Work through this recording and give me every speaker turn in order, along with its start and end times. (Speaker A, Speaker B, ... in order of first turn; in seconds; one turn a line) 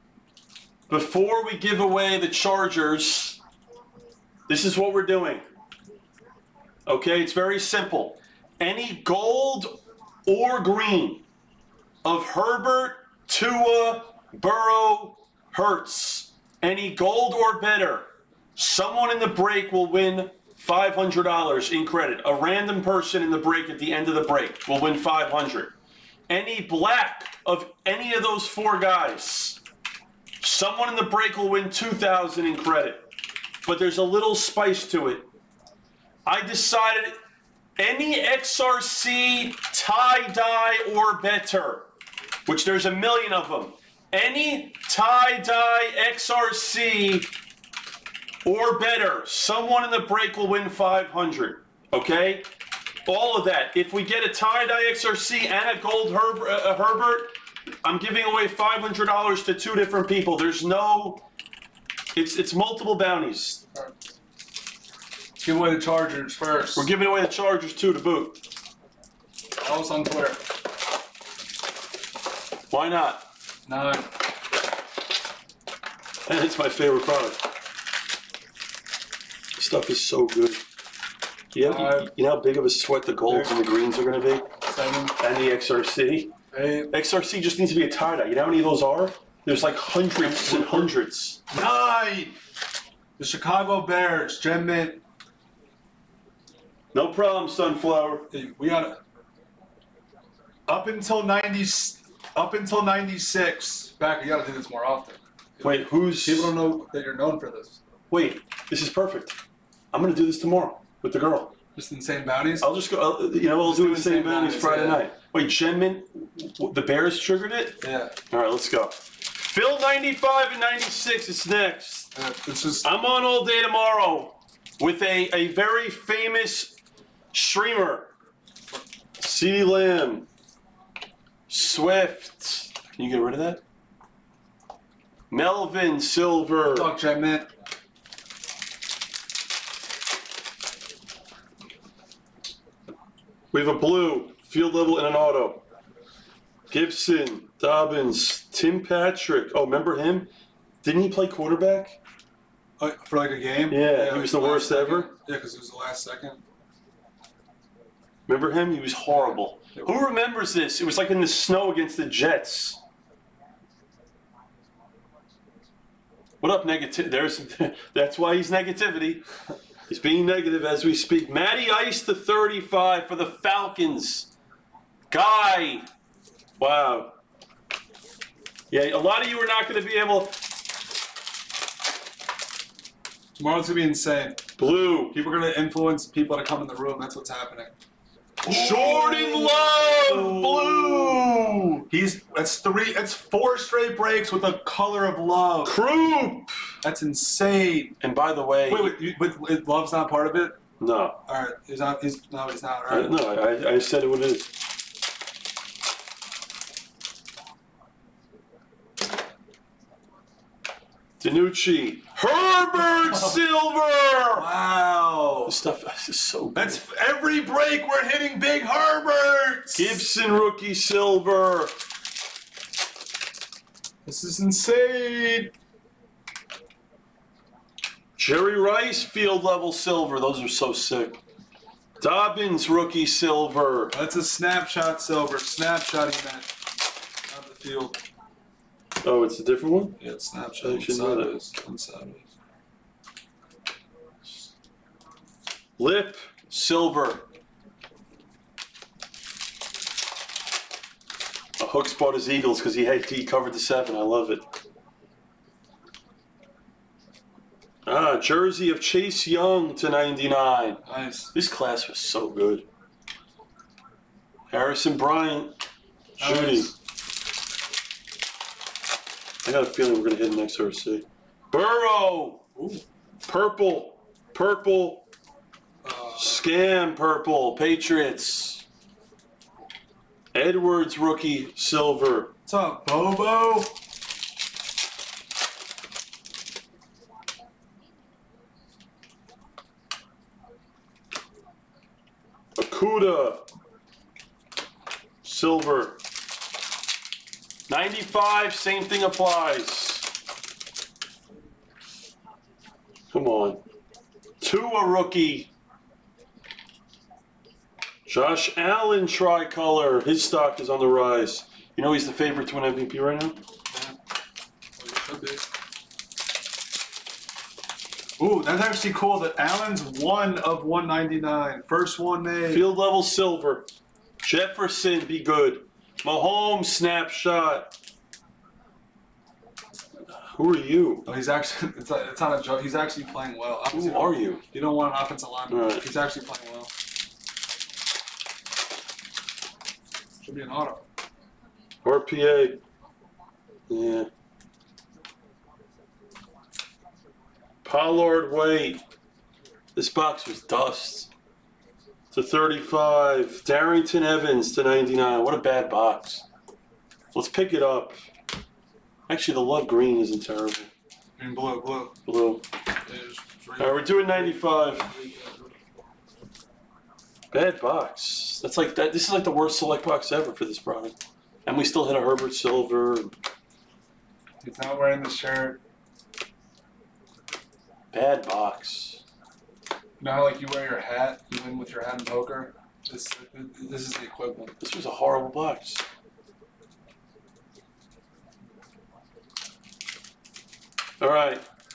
Speaker A: 0.9-3.4
Speaker A: 4.5-5.5
Speaker A: 6.9-9.8
Speaker A: 10.3-11.2
Speaker A: 12.0-25.7
Speaker A: 26.3-29.6
Speaker A: 30.4-33.0
Speaker A: 33.6-35.3
Speaker A: 36.3-37.1
Speaker A: 37.8-41.9
Speaker A: 42.5-47.3
Speaker A: 48.5-52.5
Speaker A: 53.1-57.3
Speaker A: 57.8-61.2
Speaker A: 62.2-63.6
Speaker B: 65.4-66.9
Speaker A: 66.8-68.4
Speaker B: 69.6-70.4
Speaker A: 72.7-73.2
Speaker B: 73.7-74.1
Speaker A: 76.3-77.4
Speaker A: 79.6-80.6
Speaker A: 81.5-84.5
Speaker B: 81.6-82.1
Speaker B: 84.6-85.2
Speaker A: 85.2-86.3
Speaker B: 86.5-86.9
Speaker A: 86.9-91.4
Speaker B: 90.2-90.9
Speaker B: 91.5-92.3
Speaker B: 93.2-95.0
Speaker A: 96.9-98.3
Speaker B: 98.3-99.0
Speaker B: 100.7-107.8
Speaker A: 105.6-106.5
Speaker A: 108.1-109.3
Speaker A: 109.9-111.5
Speaker B: 111.8-112.7
Speaker A: 112.6-122.1
Speaker B: 113.6-115.0
Speaker B: 117.8-118.2
Speaker B: 122.1-122.9
Speaker A: 122.8-126.8
Speaker A: 127.3-128.1
Speaker A: 129.2-130.3
Speaker A: 131.5-133.6
Speaker A: 135.3-136.9
Speaker B: 136.6-137.5
Speaker A: 143.5-145.6
Speaker A: 146.7-150.3
Speaker A: 150.8-152.0
Speaker B: 152.8-156.4
Speaker A: 153.7-155.1
Speaker A: 158.3-162.8
Speaker B: 159.1-159.9
Speaker A: 166.4-169.2
Speaker A: 169.9-174.3
Speaker A: 175.1-175.8
Speaker A: 176.6-177.2
Speaker A: 178.7-180.3
Speaker B: 183.4-184.4
Speaker A: 184.6-185.2
Speaker B: 185.1-187.7
Speaker B: 188.4-195.7
Speaker A: 188.4-191.7
Speaker A: 195.7-196.5
Speaker B: 196.8-198.0
Speaker A: 198.0-199.0
Speaker B: 198.7-200.6
Speaker A: 200.8-201.2
Speaker B: 201.3-203.2
Speaker A: 202.9-204.5
Speaker A: 211.2-214.5
Speaker B: 214.3-215.6
Speaker A: 215.5-216.8
Speaker B: 216.6-220.0
Speaker A: 219.8-221.7
Speaker B: 224.1-225.5
Speaker A: 228.2-231.2
Speaker A: 232.0-233.9
Speaker B: 233.9-236.5
Speaker B: 237.3-238.0
Speaker A: 239.0-240.0
Speaker B: 240.0-242.3
Speaker A: 240.6-241.4
Speaker A: 245.8-247.2
Speaker A: 251.6-254.4
Speaker A: 257.9-260.8
Speaker B: 260.9-261.3
Speaker A: 261.3-262.7
Speaker A: 264.5-265.6
Speaker A: 266.2-266.7
Speaker B: 266.2-266.7
Speaker A: 269.4-272.4
Speaker B: 272.6-272.8
Speaker A: 273.3-275.1
Speaker B: 275.8-276.4
Speaker A: 276.2-278.6
Speaker A: 280.3-282.3
Speaker B: 282.5-283.7
Speaker A: 292.6-293.4
Speaker A: 295.2-296.0
Speaker A: 297.7-300.1
Speaker A: 303.1-303.6
Speaker A: 304.4-305.5
Speaker A: 308.1-313.4
Speaker B: 314.8-315.5
Speaker B: 318.2-322.6
Speaker A: 322.5-323.7
Speaker A: 324.2-327.7
Speaker A: 330.2-331.1
Speaker B: 331.1-336.7
Speaker A: 333.7-334.4
Speaker A: 335.5-335.8
Speaker B: 340.2-340.8
Speaker A: 341.9-342.6
Speaker A: 343.7-344.1
Speaker A: 347.6-348.8
Speaker A: 349.8-351.1
Speaker A: 352.1-356.2
Speaker A: 357.1-358.0
Speaker A: 359.1-360.7
Speaker B: 361.2-362.0
Speaker A: 362.1-362.4
Speaker B: 362.9-365.5
Speaker A: 363.6-364.9
Speaker A: 367.3-370.9
Speaker A: 371.5-373.1
Speaker B: 374.4-375.6
Speaker A: 377.9-379.0
Speaker B: 380.0-384.6
Speaker A: 384.6-385.8
Speaker A: 391.0-391.4